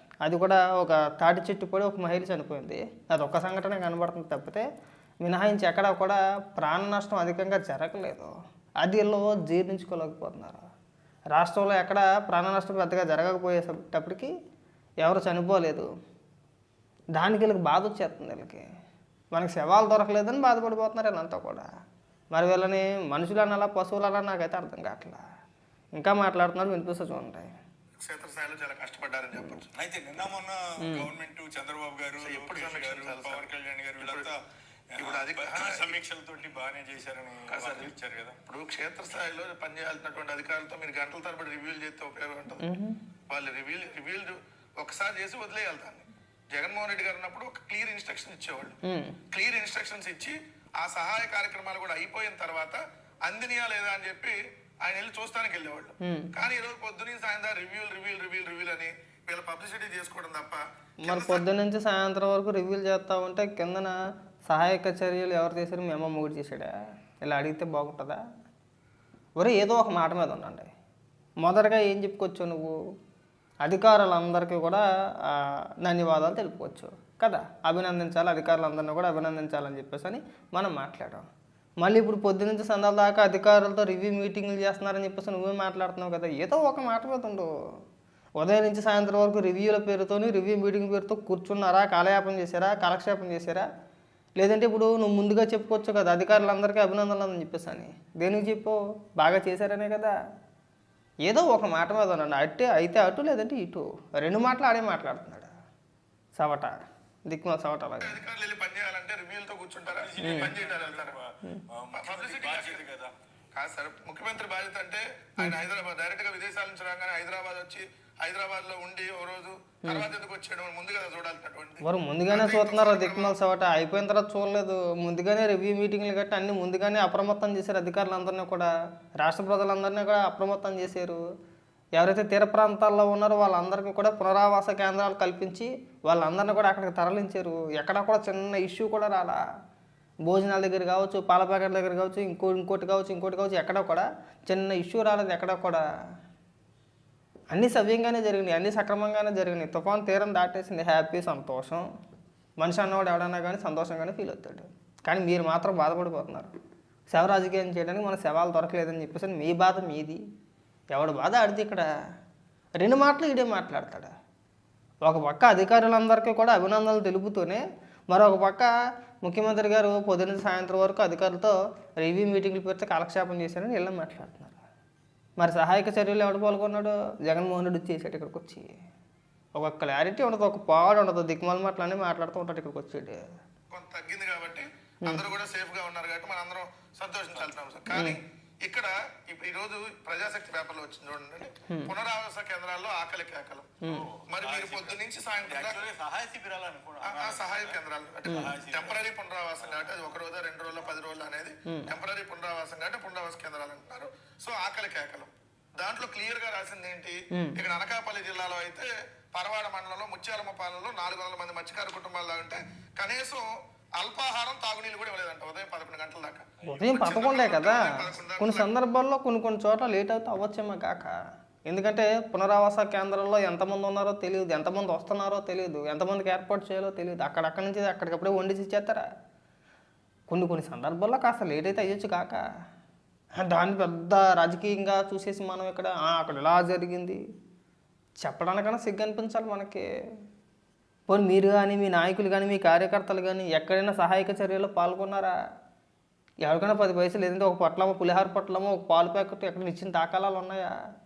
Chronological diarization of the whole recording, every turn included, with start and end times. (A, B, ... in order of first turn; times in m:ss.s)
0:00.2-0:04.6 A
0:05.2-0:10.6 A
0:11.3-0:14.3 A
0:15.0-0:15.9 A
0:17.2-0:18.6 A
0:19.3-0:21.7 A
0:22.3-0:25.2 A
0:26.0-0:27.5 A
0:28.0-0:29.7 B
0:29.8-0:34.4 C
0:30.8-0:31.1 A
0:32.2-0:34.3 B
0:34.9-0:38.4 C
0:35.0-0:36.0 B
0:37.5-0:37.9 B
0:38.4-0:42.6 B
0:42.6-0:43.0 A
0:43.3-0:48.8 B
0:48.8-0:49.2 A
0:49.3-1:01.4 B
0:56.0-0:56.3 A
1:01.0-1:03.9 A
1:04.5-1:08.2 A
1:09.4-1:10.7 A
1:11.4-1:12.7 A
1:13.6-1:21.2 A
1:21.8-1:27.5 A
1:28.4-1:33.7 A
1:34.4-1:40.1 A
1:41.2-1:45.5 A
1:46.4-1:46.8 A
1:47.3-1:48.2 A
1:48.0-1:51.2 B
1:49.9-1:53.1 C
1:50.2-1:50.5 A
1:51.9-1:52.8 B
1:53.5-2:03.4 B
2:01.8-2:11.2 A
2:12.0-2:19.4 A
2:20.3-2:25.8 A
2:27.5-2:31.8 A
2:32.6-2:36.5 A
2:37.1-2:40.2 A
2:40.9-2:41.8 A
2:42.8-2:44.1 A
2:45.0-2:48.7 A
2:49.2-2:54.6 A
2:55.4-2:58.8 A
2:59.6-3:03.3 A
3:03.7-3:15.9 B
3:07.9-3:08.2 A
3:13.8-3:14.1 A
3:13.9-3:19.0 C
3:17.0-3:38.7 B
3:18.2-3:18.5 A
3:19.6-3:19.9 C
3:21.7-3:21.9 A
3:36.6-3:37.8 A
3:38.4-3:41.1 A
3:41.7-3:49.1 A
3:50.3-3:52.4 A
3:53.4-3:57.2 A
3:58.2-3:59.8 A
4:01.1-4:05.3 A
4:06.4-4:10.7 A